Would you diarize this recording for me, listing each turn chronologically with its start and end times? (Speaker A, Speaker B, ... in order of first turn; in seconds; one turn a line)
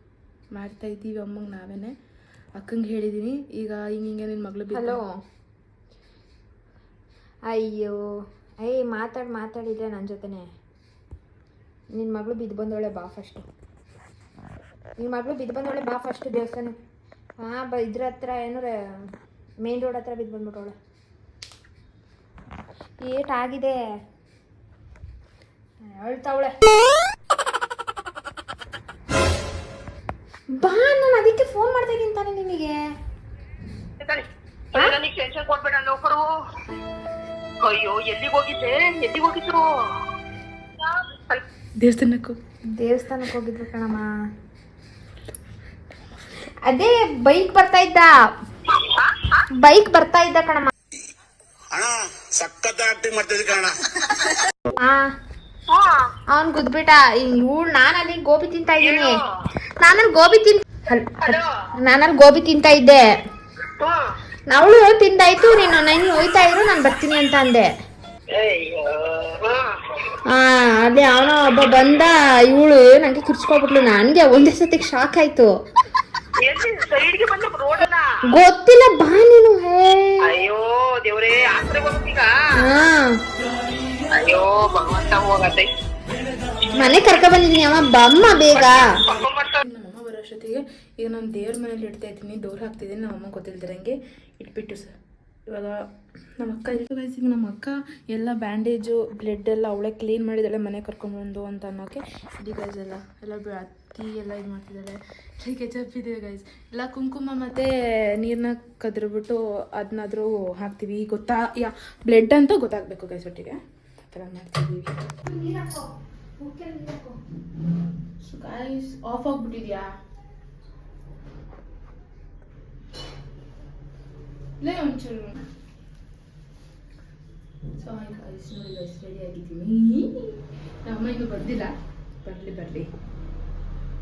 Speaker A: 0.5-1.9
Speaker A: 2.6-5.0
Speaker B: 4.7-5.1
Speaker B: 7.5-8.0
Speaker B: 8.6-10.5
Speaker B: 11.9-13.4
Speaker B: 15.0-16.8
Speaker B: 17.4-19.1
Speaker B: 19.6-20.7
Speaker B: 23.0-23.8
Speaker B: 25.8-26.6
Speaker B: 30.5-32.8
Speaker C: 34.0-36.3
Speaker C: 37.6-39.6
Speaker C: 40.9-41.4
Speaker A: 41.8-42.4
Speaker B: 42.8-44.1
Speaker B: 46.6-48.1
Speaker C: 49.0-49.4
Speaker B: 49.6-50.7
Speaker D: 51.7-53.8
Speaker B: 54.8-55.0
Speaker C: 55.7-56.0
Speaker B: 56.3-59.2
Speaker C: 58.8-59.2
Speaker B: 59.8-63.1
Speaker C: 61.2-61.5
Speaker B: 64.5-67.7
Speaker C: 68.3-69.7
Speaker B: 70.3-75.5
Speaker C: 76.4-78.0
Speaker B: 78.3-80.2
Speaker C: 80.2-82.3
Speaker B: 82.6-83.2
Speaker C: 84.1-85.7
Speaker B: 86.8-89.0
Speaker C: 88.5-89.5
Speaker A: 89.6-94.9
Speaker A: 95.5-95.8
Speaker A: 96.4-113.6
Speaker A: 114.1-114.9
Speaker B: 115.2-117.2
Speaker A: 118.2-119.8
Speaker A: 124.6-125.4
Speaker A: 127.8-130.1
Speaker A: 130.8-131.7
Speaker A: 132.2-132.9